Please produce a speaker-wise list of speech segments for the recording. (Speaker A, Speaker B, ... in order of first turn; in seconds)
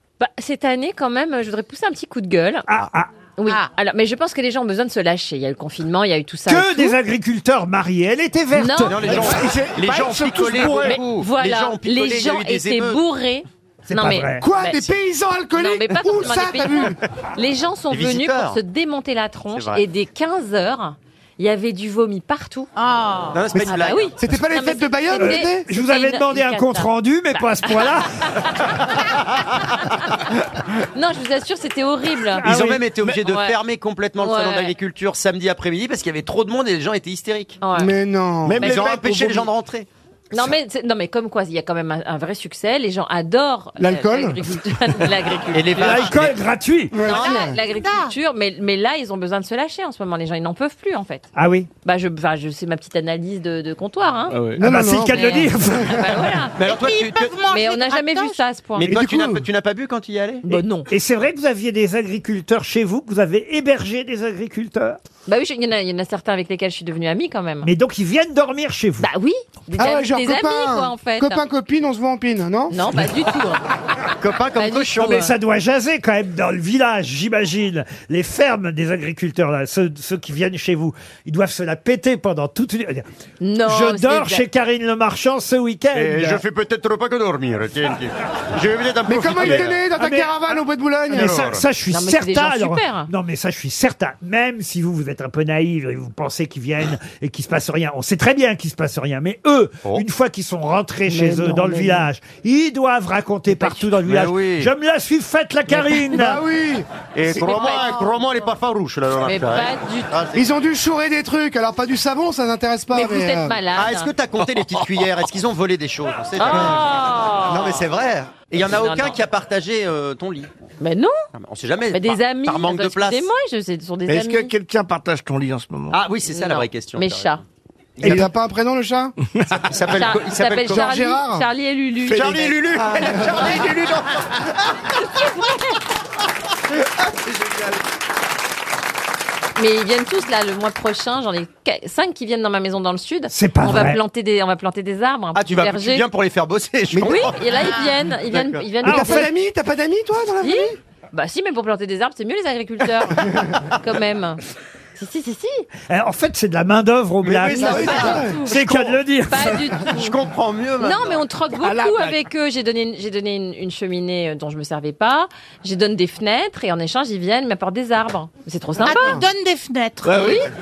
Speaker A: 0.2-2.7, 3.4-7.0, 8.5-9.1, 10.7-14.9, 15.5-28.6, 30.8-32.5, 33.2-33.6, 34.2-34.7, 37.6-37.9, 38.6-39.0, 40.3-46.0, 47.0-51.3, 51.8-54.5, 55.0-56.7, 57.5-58.9, 60.4-60.9, 65.3-67.7, 69.0-71.4, 72.7-73.6, 74.5-75.3, 83.4-84.5, 91.9-93.1, 103.5-103.9, 107.6-108.0, 109.2-110.2, 112.9-114.1, 116.4-117.8, 118.6-119.2, 120.8-121.1, 121.9-124.5, 126.3-127.4, 129.9-133.4, 139.6-146.1, 147.0-149.3, 150.4-154.4, 154.9-155.7, 157.9-160.2, 160.8-169.2, 170.0-170.5
Speaker B: 2.7-3.1, 6.5-9.4, 13.9-14.5, 25.1-28.8, 32.3-33.2, 45.7-47.1, 51.3-51.7, 54.5-56.4, 60.9-65.0, 67.6-69.1, 75.0-83.0, 83.6-86.4, 89.3-90.5, 91.1-106.4, 128.0-128.3, 143.3-144.0, 148.8-149.3, 155.9-159.7
Speaker C: 8.8-13.0, 17.9-18.6, 19.5-19.8, 23.3-24.1, 32.4-37.6, 38.6-39.9, 45.5-46.4, 56.5-57.5, 58.7-60.6, 74.2-75.2, 85.9-89.8, 91.1-91.7, 104.0-104.7, 107.1-110.6, 113.8-116.9, 117.5-120.5, 121.3-123.3, 125.9-127.3, 129.5-130.9, 132.1-134.5, 137.3-137.7, 145.3-147.6, 148.2-148.7, 157.2-158.2, 159.9-161.2
Speaker D: 9.0-11.0, 14.4-17.0, 23.5-25.7, 37.8-38.7, 43.8-44.4, 46.9-47.6, 54.5-56.0, 58.9-59.5, 69.8-72.8, 89.0-91.5, 106.1-107.6, 110.3-113.6, 116.5-116.8, 128.0-129.2, 130.7-131.5, 132.4-133.3, 148.8-150.8, 157.5-158.4, 161.6-161.9, 168.8-169.3
Speaker E: 38.5-39.5, 54.3-54.6, 124.1-126.0, 170.0-170.4
Speaker F: 56.7-58.4, 168.8-170.3